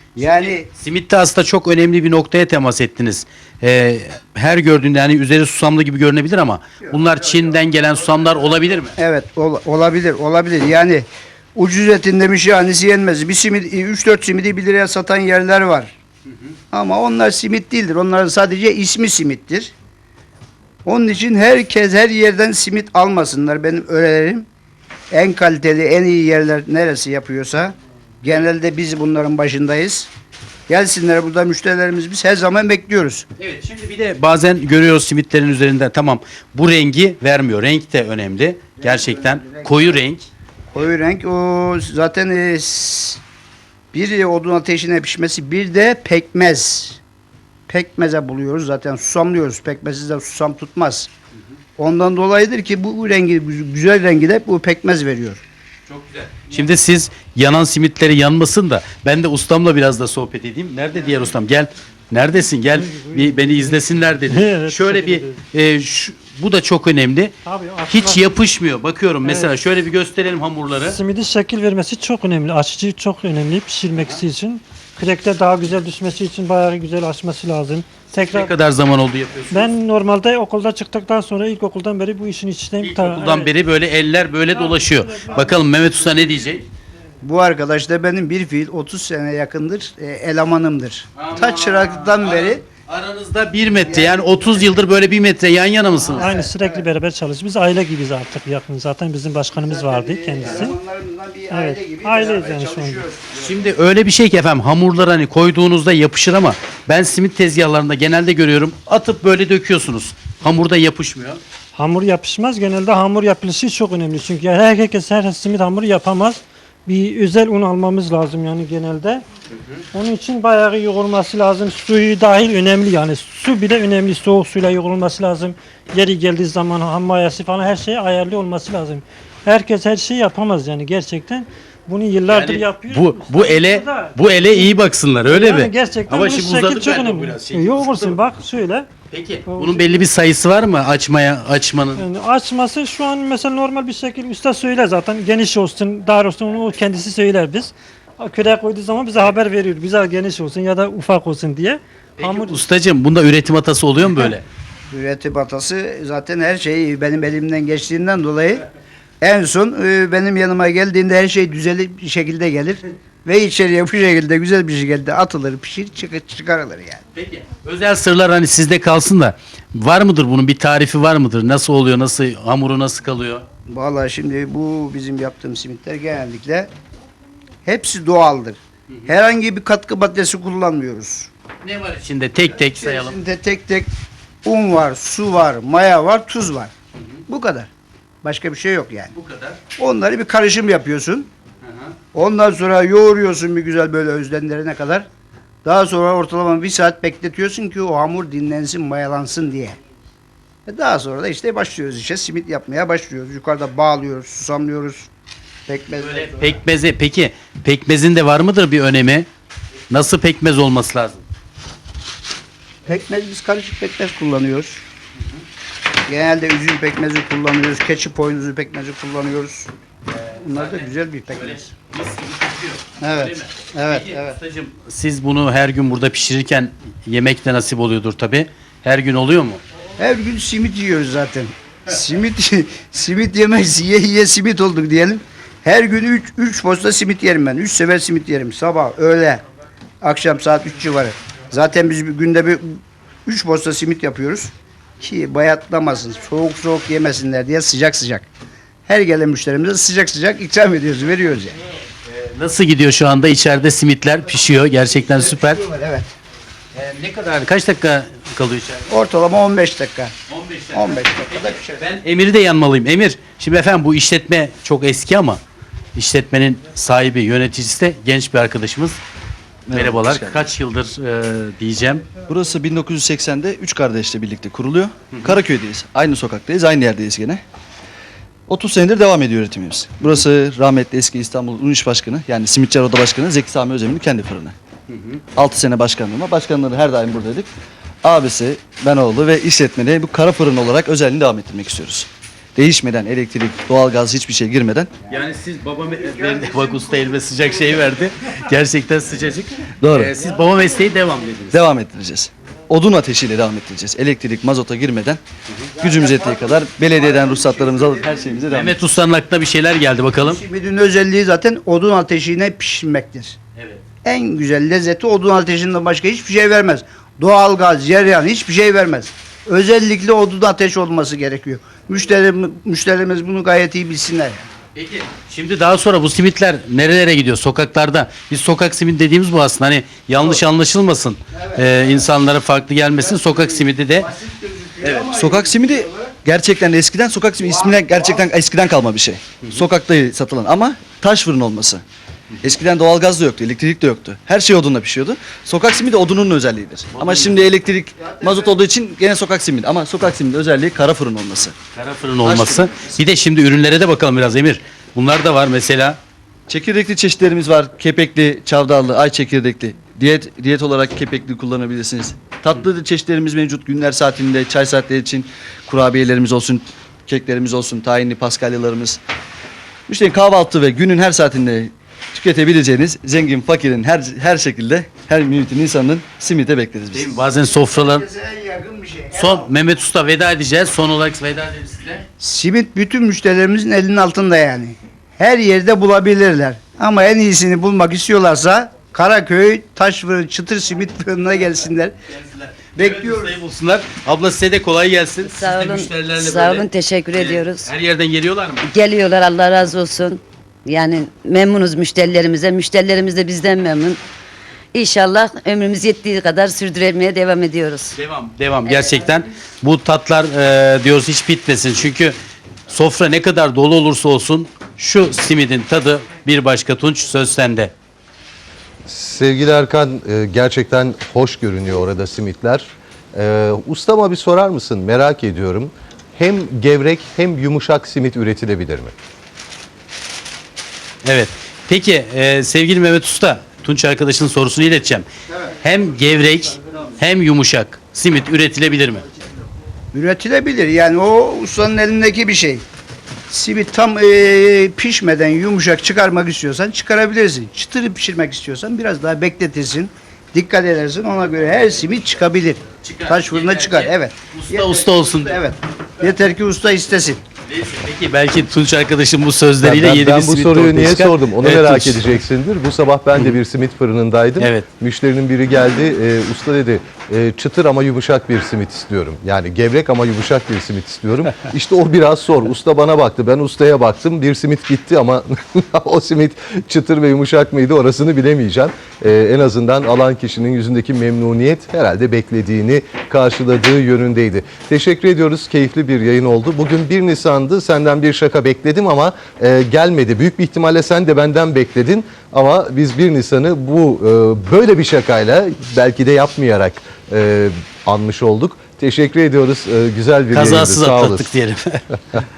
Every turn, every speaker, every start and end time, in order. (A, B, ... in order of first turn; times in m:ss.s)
0:00.1-0:00.7 A
0:00.2-0:09.0 B
0:09.0-0:15.9 A
0:16.7-0:19.7 A
0:20.8-0:24.4 A
0:25.1-0:30.1 A
0:30.7-0:33.2 A
0:33.4-0:40.3 B
0:38.8-0:40.0 A
0:40.7-0:43.2 A
0:43.9-0:47.0 A
0:47.7-0:51.1 A
0:51.8-0:55.4 A
0:55.9-1:07.4 B
1:02.7-1:05.4 C
1:07.4-1:08.3 C
1:07.9-1:11.0 B
1:09.2-1:09.5 C
1:10.7-1:18.5 C
1:18.3-1:19.7 B
1:19.5-1:23.5 C
1:22.8-1:26.6 B
1:24.5-1:25.6 C
1:27.2-1:32.6 A
1:31.2-1:36.3 B
1:33.8-1:34.8 A
1:36.0-1:36.9 A
1:36.1-1:40.8 C
1:39.5-1:43.7 A
1:41.5-1:43.1 C
1:43.4-1:51.4 B
1:51.7-1:59.2 C
1:59.9-2:18.9 C
2:12.3-2:18.2 B
2:19.1-2:22.0 B
2:19.4-2:20.0 C
2:21.9-2:32.6 C
2:32.2-2:34.4 B
2:34.9-2:38.6 A
2:39.2-2:47.0 A
2:47.1-2:53.4 B
2:53.7-2:56.7 A
2:57.6-3:01.3 A
3:01.6-3:03.2 B
3:02.5-3:03.9 A
3:04.4-3:06.7 A
3:07.3-3:07.7 A
3:08.2-3:09.1 A
3:09.1-3:09.6 B
3:09.8-3:11.3 A
3:11.6-3:11.9 B
3:12.1-3:15.0 A
3:15.6-3:19.8 A
3:20.6-3:25.1 A
3:25.7-3:26.6 A
3:26.0-3:29.3 B
3:29.9-3:31.2 B
3:32.8-3:34.8 A
3:36.0-3:39.7 A
3:40.1-3:49.6 B
3:40.3-3:41.6 A
3:43.0-3:44.4 A
3:50.0-3:59.4 A
4:00.0-4:08.3 A
4:08.9-4:11.6 A
4:12.0-4:15.6 B
4:15.0-4:16.1 A
4:16.7-4:18.9 B
4:18.9-4:20.1 A
4:20.3-4:25.4 B
4:20.7-4:21.8 A
4:25.9-4:29.0 B
4:29.7-4:30.5 D
4:29.7-4:32.1 B
4:32.3-4:37.4 D
4:38.5-4:44.5 D
4:44.9-4:45.2 B
4:45.3-4:47.5 D
4:48.0-4:54.9 D
4:55.1-5:01.6 B
4:55.8-4:57.8 A
4:59.8-5:00.1 D
5:01.5-5:05.2 D
5:05.8-5:08.6 A
5:05.8-5:08.7 D
5:08.5-5:10.4 B
5:10.2-5:13.4 A
5:13.6-5:13.8 B
5:14.0-5:24.4 A
5:24.7-5:34.1 B
5:31.3-5:31.9 A
5:33.0-5:36.1 A
5:35.0-5:41.8 D
5:37.4-5:38.3 A
5:42.4-5:51.6 D
5:46.9-5:47.3 B
5:48.0-5:48.6 A
5:51.7-5:56.0 B
5:52.2-5:53.0 D
5:56.5-6:09.0 D
6:09.9-6:17.2 D
6:16.9-6:18.0 B
6:17.6-6:19.5 A
6:19.1-6:22.0 B
6:22.2-6:31.9 A
6:32.1-6:38.7 B
6:32.7-6:33.4 A
6:35.2-6:37.7 E
6:38.6-6:44.0 E
6:44.7-6:47.9 E
6:47.9-6:52.2 B
6:48.6-6:49.0 E
6:52.7-6:57.7 B
6:58.8-7:08.9 F
7:11.0-7:15.1 B
7:15.6-7:19.0 B
7:19.9-7:22.6 A
7:23.3-7:37.2 A
7:32.8-7:35.4 B
7:37.5-7:42.0 B
7:39.6-8:21.3 F
7:43.1-7:43.4 B
7:44.4-7:44.7 B
8:20.3-8:21.8 B